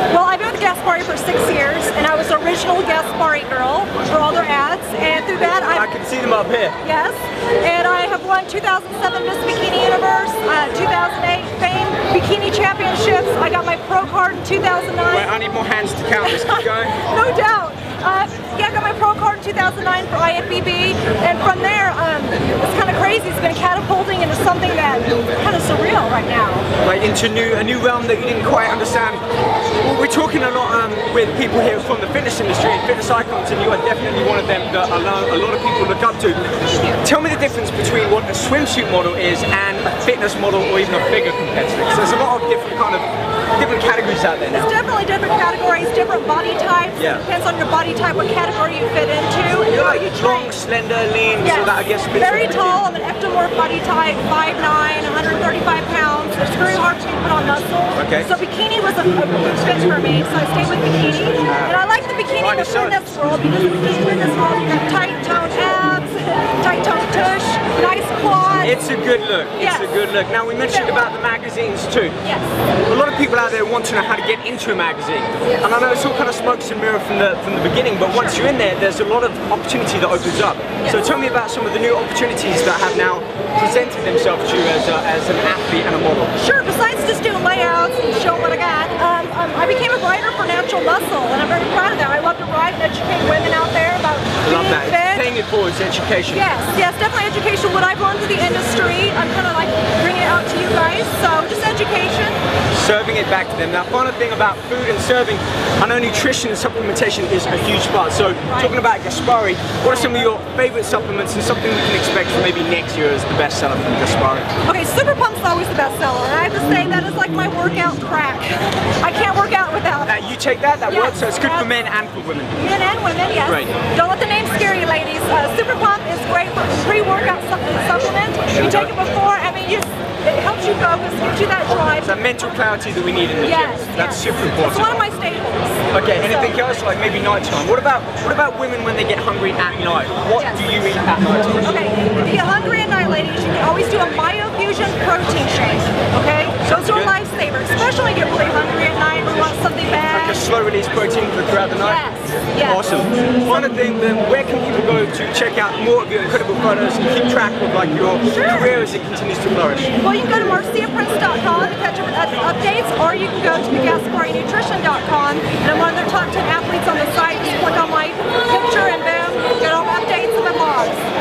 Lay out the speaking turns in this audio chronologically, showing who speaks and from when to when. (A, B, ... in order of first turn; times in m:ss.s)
0:00.1-0:05.9 A
0:05.7-0:06.8 B
0:06.8-0:15.3 A
0:15.1-0:17.0 B
0:16.2-0:26.7 A
0:26.8-0:29.2 B
0:29.8-0:36.4 B
0:37.0-0:44.7 B
0:44.5-0:50.5 A
0:47.0-0:47.2 B
0:49.6-0:52.8 B
0:51.4-1:08.8 A
0:58.0-0:58.3 B
1:01.5-1:01.8 B
1:02.4-1:03.0 B
1:08.6-1:12.2 B
1:09.6-1:10.0 A
1:10.7-1:11.0 A
1:12.2-1:12.5 A
1:12.9-1:26.3 B
1:18.1-1:18.4 A
1:26.4-1:35.3 A
1:34.4-1:36.5 B
1:36.3-1:42.4 A
1:42.7-1:54.5 B
1:48.5-1:48.7 A
1:49.8-1:50.2 A
1:54.6-2:00.2 A
2:00.1-2:02.6 B
2:00.9-2:01.7 A
2:02.6-2:12.2 A
2:03.4-2:03.7 B
2:08.5-2:08.9 B
2:12.0-2:15.0 B
2:13.4-2:16.6 A
2:15.9-2:21.8 B
2:21.6-2:30.5 A
2:26.6-2:27.1 B
2:30.1-2:32.0 B
2:31.8-2:32.9 A
2:32.6-2:39.9 B
2:38.3-2:38.8 A
2:40.0-2:51.0 A